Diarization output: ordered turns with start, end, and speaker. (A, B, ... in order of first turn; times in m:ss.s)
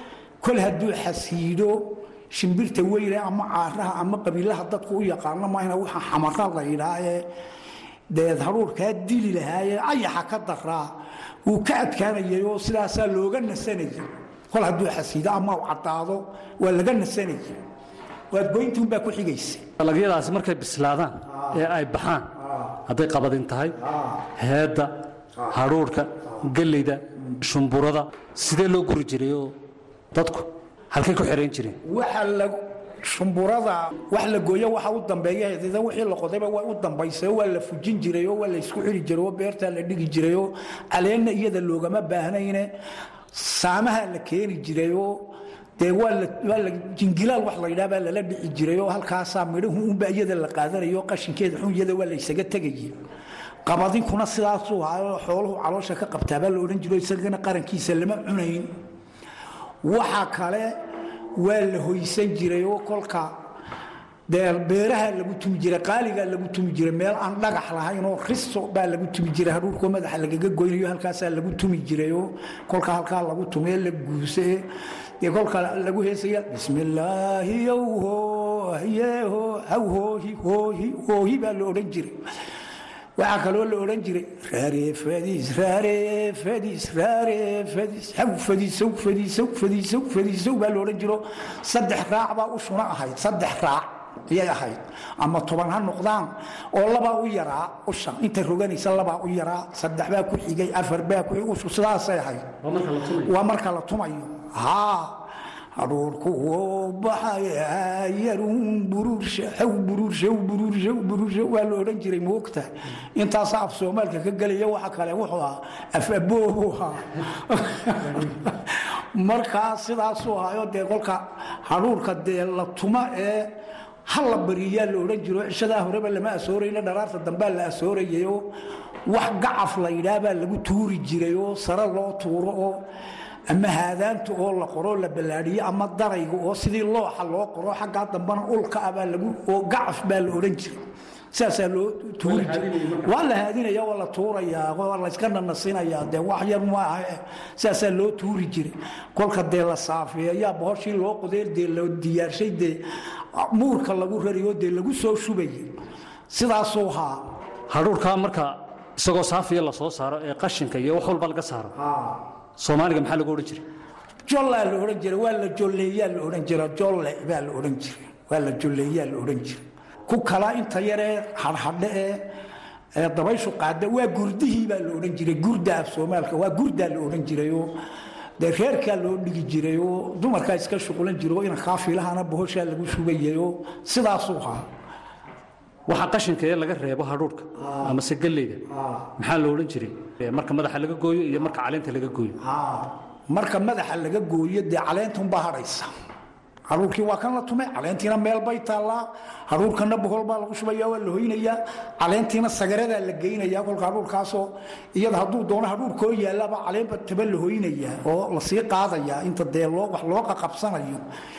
0:00.4-0:07.3 A
0:08.1-0:17.6 A
0:18.3-0:19.6 A
0:19.8-0:23.8 B
0:24.3-0:29.6 B
0:30.1-0:31.8 B
0:31.8-0:42.7 A
0:43.3-0:53.0 A
0:53.6-0:58.7 A
0:59.8-1:00.7 A
1:01.3-1:03.4 A
1:04.3-1:14.7 A
1:15.2-1:22.2 A
1:23.2-1:42.6 A
1:42.6-1:43.3 B
1:43.2-2:08.5 A
2:09.0-2:12.9 A
2:13.5-2:20.8 A
2:21.3-2:35.8 A
2:22.2-2:23.1 B
2:36.3-2:37.3 A
2:37.7-2:41.8 B
2:41.8-2:42.2 A
2:42.6-2:43.6 B
2:44.2-2:52.3 A
2:52.9-2:57.8 A
2:58.4-3:04.7 A
3:05.9-3:12.4 B
3:12.4-3:15.9 A
3:16.7-3:31.0 A